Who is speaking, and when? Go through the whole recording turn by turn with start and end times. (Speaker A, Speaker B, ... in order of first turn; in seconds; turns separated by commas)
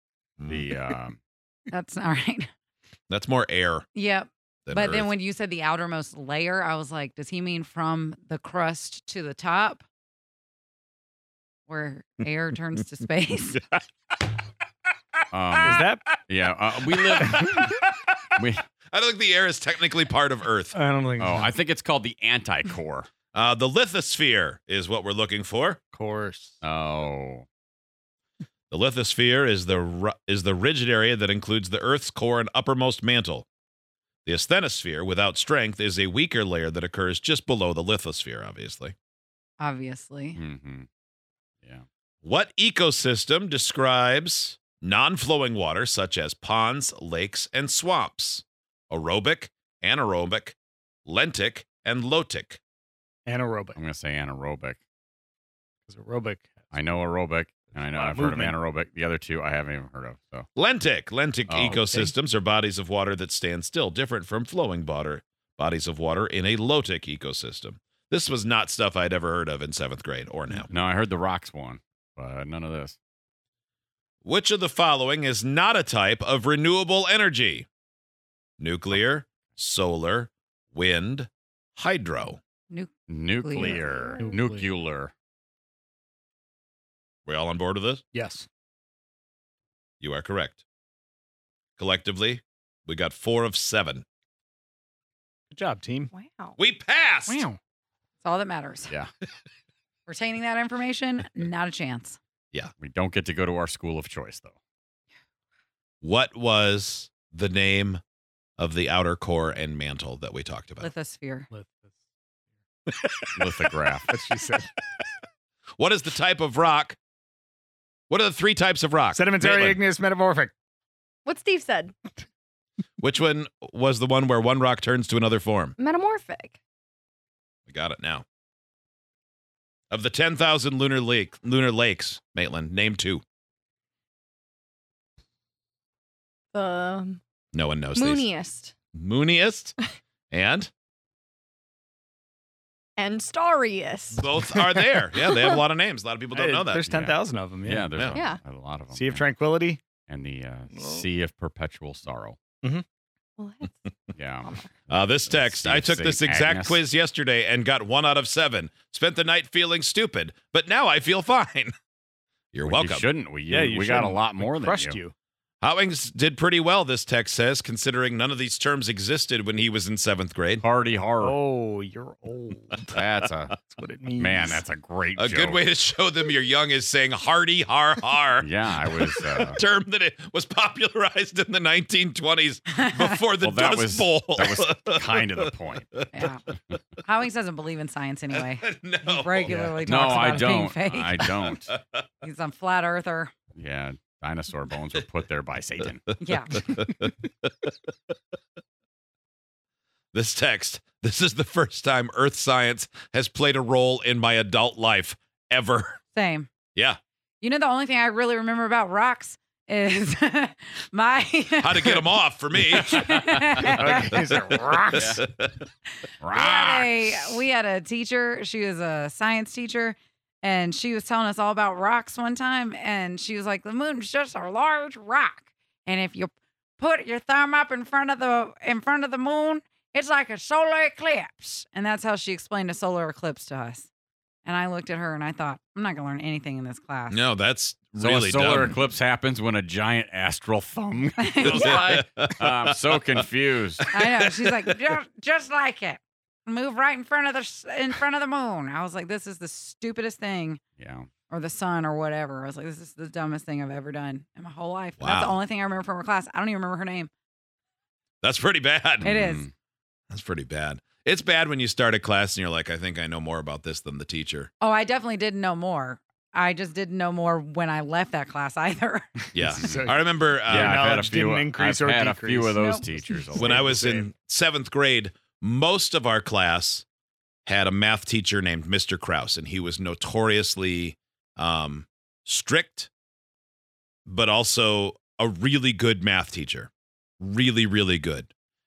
Speaker A: 0.4-0.8, Speaker B: 0.5-1.2, Speaker C: 1.7-2.5, Speaker A: 3.1-3.9, Speaker C: 3.9-9.8, Speaker A: 4.7-5.1, Speaker C: 11.7-13.6, Speaker B: 15.3-17.8, Speaker D: 15.6-16.1, Speaker D: 17.2-17.7, Speaker B: 18.4-18.6, Speaker A: 18.9-20.8, Speaker D: 20.7-21.5, Speaker B: 21.2-23.1, Speaker A: 23.3-25.8, Speaker D: 25.9-26.6, Speaker B: 26.6-27.4, Speaker A: 28.7-33.5, Speaker A: 34.3-39.0, Speaker C: 39.6-40.4, Speaker B: 40.4-40.9, Speaker A: 42.2-52.6, Speaker D: 53.3-53.8, Speaker B: 53.8-54.8, Speaker D: 55.9-56.7, Speaker B: 56.7-60.5, Speaker D: 57.7-58.6, Speaker A: 60.5-70.7, Speaker B: 61.5-62.1, Speaker D: 61.8-62.1, Speaker B: 70.7-73.0, Speaker A: 74.2-77.7, Speaker A: 78.6-82.4, Speaker C: 82.7-83.8, Speaker B: 83.1-85.1, Speaker E: 83.8-84.1, Speaker D: 84.2-84.7, Speaker A: 87.3-88.0, Speaker D: 88.1-88.5, Speaker A: 90.0-90.6, Speaker A: 91.8-94.0, Speaker D: 95.5-96.1, Speaker E: 96.1-96.5, Speaker A: 96.6-97.5, Speaker D: 97.3-97.6, Speaker C: 98.2-98.9, Speaker C: 100.1-102.2, Speaker B: 102.8-104.5, Speaker A: 106.0-108.0, Speaker A: 108.6-110.9, Speaker C: 110.8-111.5, Speaker D: 111.5-111.9, Speaker B: 113.3-114.1, Speaker D: 114.1-114.7, Speaker A: 115.8-117.0, Speaker A: 118.1-119.8, Speaker D: 119.1-120.5, Speaker E: 121.2-122.0, Speaker A: 123.0-125.7, Speaker E: 125.8-126.6, Speaker A: 127.7-128.2, Speaker A: 129.9-133.2, Speaker E: 136.5-137.2, Speaker A: 137.5-138.3, Speaker E: 137.9-138.8, Speaker A: 138.9-139.7, Speaker A: 140.3-140.7, Speaker E: 143.0-144.2, Speaker A: 144.1-146.8, Speaker D: 144.3-145.0, Speaker E: 145.2-145.6, Speaker D: 146.3-148.0, Speaker B: 146.9-149.3, Speaker A: 147.9-148.2, Speaker E: 148.2-148.4, Speaker D: 148.9-149.8, Speaker B: 150.1-152.4, Speaker D: 150.7-151.1, Speaker E: 153.4-153.9, Speaker B: 154.2-154.5, Speaker E: 154.4-154.7, Speaker A: 154.9-161.7, Speaker B: 155.3-156.8, Speaker A: 162.5-163.1, Speaker B: 162.6-165.0, Speaker D: 163.5-165.1, Speaker A: 165.6-170.6, Speaker B: 170.6-171.4, Speaker D: 171.2-173.0, Speaker B: 172.9-173.6, Speaker D: 173.6-174.6, Speaker B: 174.2-175.6, Speaker A: 175.2-186.2, Speaker B: 178.4-179.6, Speaker C: 182.8-183.2, Speaker B: 183.4-186.0, Speaker C: 186.1-186.4, Speaker C: 187.0-191.6, Speaker A: 188.3-189.6, Speaker D: 189.5-190.5, Speaker B: 189.8-191.7, Speaker A: 191.3-192.0, Speaker C: 192.2-193.3, Speaker B: 193.6-196.1, Speaker C: 196.2-196.6, Speaker A: 196.3-197.7, Speaker A: 200.1-206.0, Speaker C: 206.1-206.5, Speaker C: 207.4-214.6, Speaker A: 211.6-212.9, Speaker B: 213.0-214.1, Speaker D: 213.7-215.2, Speaker B: 214.9-215.2, Speaker A: 214.9-215.6, Speaker B: 216.2-217.4, Speaker C: 216.3-233.9, Speaker C: 234.4-237.2, Speaker A: 237.1-238.8, Speaker B: 238.0-243.9, Speaker C: 241.2-241.9, Speaker A: 241.4-242.7, Speaker A: 243.8-244.7, Speaker C: 243.9-250.6, Speaker B: 250.8-251.1, Speaker C: 251.3-257.1, Speaker A: 255.0-255.4, Speaker A: 258.2-259.1, Speaker C: 259.0-259.5, Speaker B: 259.0-259.5, Speaker A: 260.1-264.5, Speaker C: 264.6-269.3, Speaker A: 269.3-270.8, Speaker D: 269.4-272.6, Speaker B: 270.5-273.9, Speaker C: 272.6-273.2, Speaker A: 273.3-276.9, Speaker D: 273.4-274.1, Speaker A: 277.5-282.9, Speaker A: 284.1-288.3